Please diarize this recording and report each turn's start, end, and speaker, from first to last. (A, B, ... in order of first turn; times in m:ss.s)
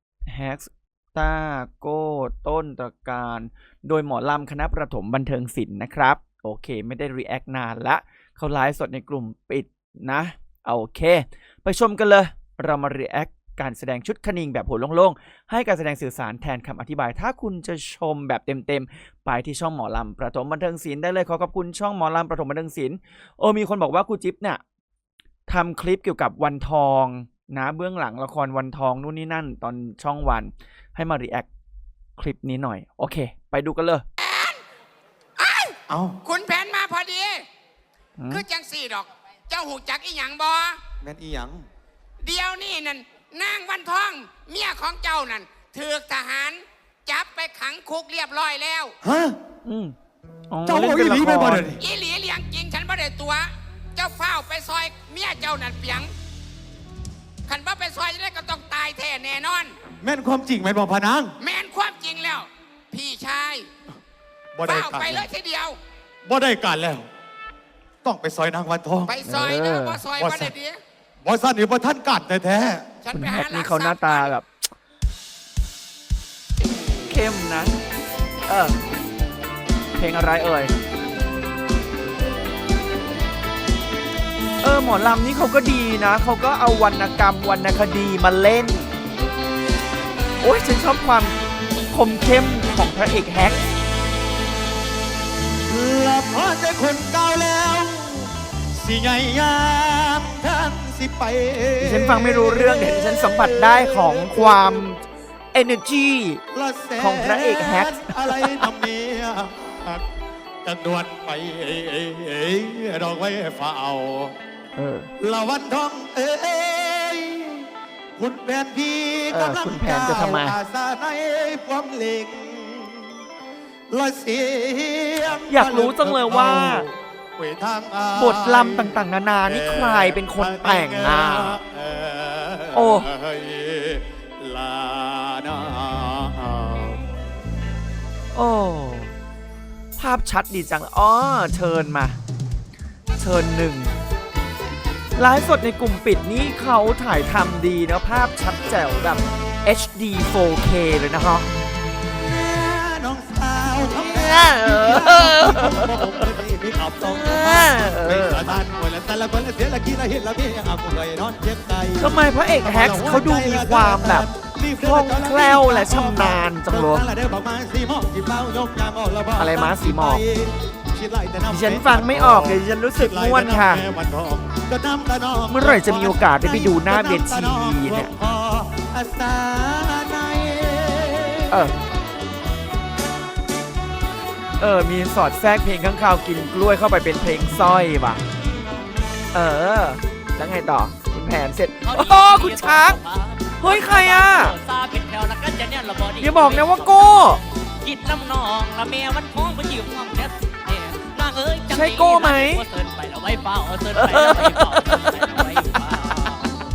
0:00.2-0:24.6 A
0:25.5-0:31.5 A
0:32.2-0:34.0 A
0:34.2-0:34.6 B
0:35.4-0:37.4 B
0:35.9-0:36.2 C
0:38.2-0:38.4 A
0:38.3-0:40.8 B
0:41.0-0:41.6 C
0:42.2-0:49.0 B
0:49.0-0:49.4 C
0:49.6-0:49.9 A
0:50.5-0:51.8 A
0:50.6-0:51.8 C
0:51.8-0:56.1 B
0:57.5-0:59.8 B
1:00.0-1:01.4 C
1:01.4-1:03.7 B
1:04.5-1:05.3 C
1:04.6-1:05.8 B
1:06.2-1:07.1 C
1:08.0-1:09.2 C
1:09.1-1:10.8 B
1:09.2-1:10.0 A
1:10.2-1:10.6 C
1:11.2-1:12.9 C
1:13.0-1:14.3 B
1:13.1-1:14.5 A
1:17.0-1:17.8 A
1:18.5-1:18.8 A
1:20.0-1:20.7 A
1:24.6-1:28.9 A
1:30.4-1:31.4 A
1:31.9-1:33.6 A
1:35.7-1:44.9 C
1:41.8-1:46.4 A
1:46.5-1:50.0 C
1:47.0-1:48.7 A
1:50.6-1:54.3 C
1:54.8-1:55.1 A
1:55.2-1:57.6 C
1:58.2-2:03.2 C
1:59.3-2:00.6 A
2:03.9-2:17.0 C
2:05.5-2:06.9 A
2:08.2-2:11.6 A
2:12.7-2:13.1 A
2:18.3-2:19.1 A
2:20.0-2:22.2 A
2:23.2-2:24.0 A
2:25.2-2:31.5 A
2:32.2-3:01.6 C
2:34.0-2:36.2 A
2:37.0-2:38.6 A
2:42.0-2:47.1 A
2:49.4-2:50.2 A
2:51.5-2:53.8 A
2:55.5-2:58.1 A
3:01.5-3:01.7 A
3:04.6-3:08.2 A
3:09.3-3:13.0 A
3:11.8-3:17.2 D
3:13.6-3:14.6 A
3:16.2-3:17.4 A
3:17.8-3:26.5 D
3:21.7-3:22.7 A
3:23.9-3:25.8 A